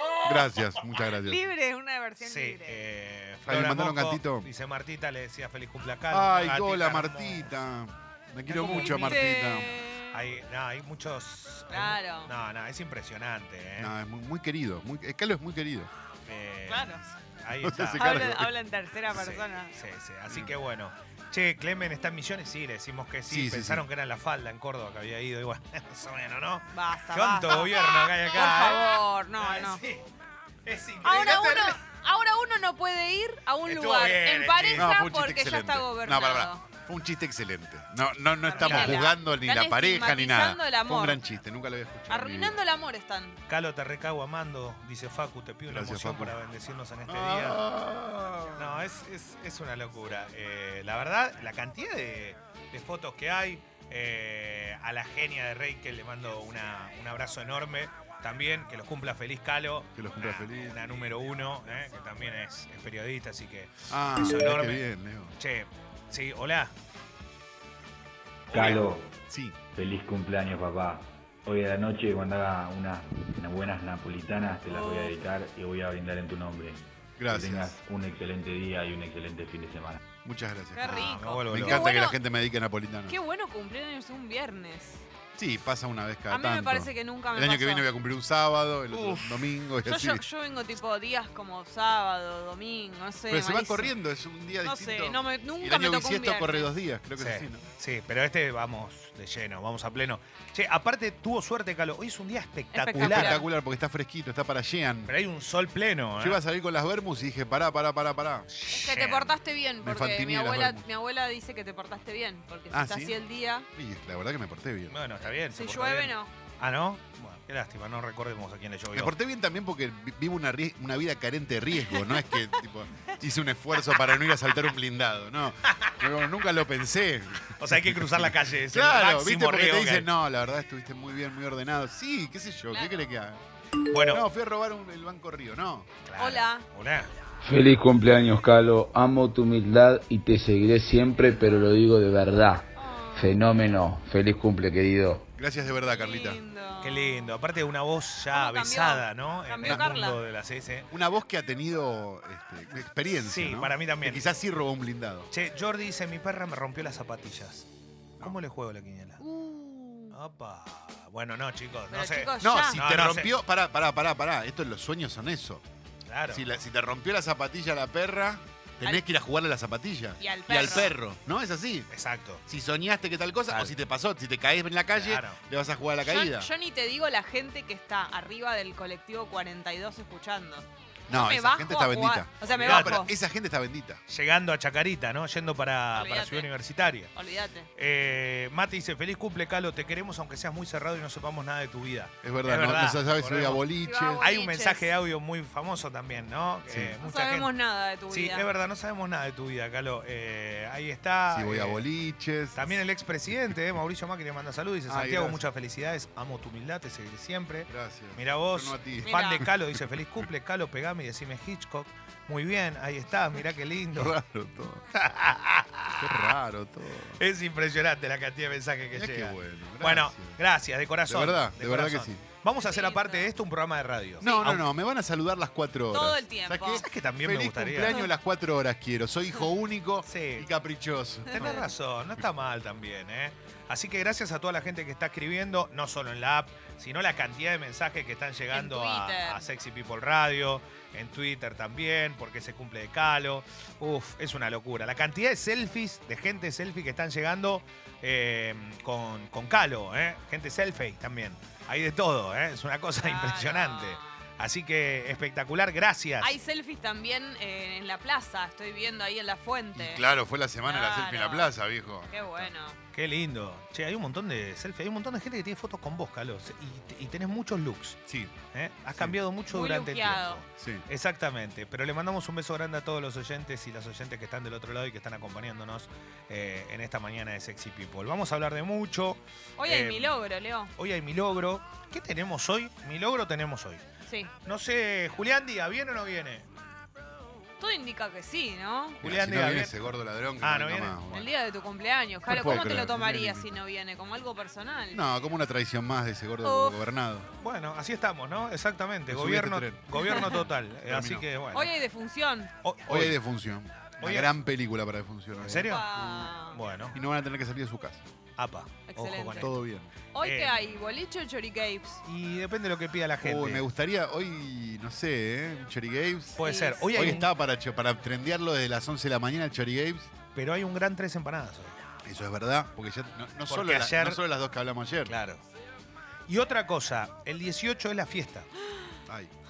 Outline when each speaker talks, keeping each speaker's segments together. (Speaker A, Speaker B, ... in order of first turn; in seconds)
Speaker A: 0.2-1.4, 3.5-4.5, 6.1-9.7, 13.8-15.9, 17.6-18.5, 23.3-23.9, 34.7-42.6, 45.7-46.4, 47.1-48.8, 60.0-60.9, 63.9-65.3, 69.3-69.6, 77.2-77.8, 80.2-83.1, 85.4-90.2, 93.3-97.6, 103.0-105.1, 106.2-108.5, 109.8-110.8, 112.7-113.2, 113.7-115.0, 118.9-133.4, 134.1-135.9, 145.3-146.4, 149.6-149.9, 150.9-155.3, 162.4-165.6, 166.3-171.9, 172.5-176.5, 181.1-184.0, 192.2-194.2, 196.7-196.9, 201.3-202.8, 204.9-205.4, 207.7-209.5, 213.9-214.8, 216.0-217.2, 218.9-220.4, 221.1-222.2, 224.2-231.6, 259.7-262.5, 268.1-268.3, 270.6-270.9, 289.0-291.3, 292.2-293.5, 294.9-297.3, 299.1-301.3, 302.9-306.3, 306.9-308.0, 309.4-309.9, 313.2-316.4, 316.9-320.1, 322.0-325.1, 329.1-329.3
Speaker B: 1.2-2.8, 8.5-10.2, 11.7-12.3, 16.7-17.0, 18.0-19.7, 26.7-29.8, 31.0-36.6, 38.4-41.2, 42.1-43.4, 74.7-75.2, 80.7-82.2, 83.1-85.0, 86.3-87.8, 89.8-93.9, 94.6-96.7, 102.7-103.4, 108.7-113.7, 115.5-116.3, 136.2-136.6, 142.7-143.4, 145.9-147.3, 148.3-150.2, 159.2-160.1, 161.9-162.8, 170.2-170.9, 176.0-183.1, 185.9-186.5, 187.1-187.7, 193.8-194.9, 197.0-198.4, 209.0-209.5, 222.6-223.3, 224.2-224.6, 225.9-226.8, 231.3-231.7, 238.5-239.4, 253.0-254.2, 256.2-260.0, 260.6-261.5, 262.1-262.8, 269.5-270.4, 279.6-280.7, 284.1-284.3, 287.6-289.0, 291.1-295.0, 296.4-296.8, 299.9-300.4, 301.5-302.5, 305.6-306.6, 308.9-309.5, 310.1-312.0, 316.4-317.2
Speaker C: 2.2-7.5, 8.5-9.3, 10.1-13.9, 16.2-18.4, 19.1-30.0, 30.6-31.8, 33.6-34.9, 38.6-39.1, 43.5-47.6, 48.5-66.7, 68.5-68.8, 80.8-81.8, 88.9-89.2, 97.2-103.4, 105.0-106.4, 108.5-109.4, 114.9-119.1, 127.6-130.1, 133.9-134.2, 136.0-137.1, 146.8-150.9, 153.2-154.3, 155.3-157.7, 158.2-159.2, 160.1-163.3, 166.1-166.4, 170.6-170.8, 171.9-172.4, 174.9-175.4, 182.5-183.0, 184.1-187.1, 187.8-193.6, 194.2-197.5, 198.1-201.8, 202.5-214.1, 214.9-216.4, 217.2-224.6, 226.8-228.0, 230.0-230.5, 231.3-256.3, 262.9-268.0, 268.5-280.2, 280.8-283.8, 284.4-286.4, 289.0-289.8, 290.4-291.0, 297.4-301.7, 302.6-303.2, 304.0-304.3, 305.4-305.8, 306.5-306.9, 308.4-309.5, 310.2-310.6, 312.1-313.7, 316.4-317.3, 320.3-321.8, 323.5-324.2, 325.1-325.4, 326.3-328.5
Speaker D: 68.5-69.1, 69.7-80.0
Speaker E: 137.4-145.2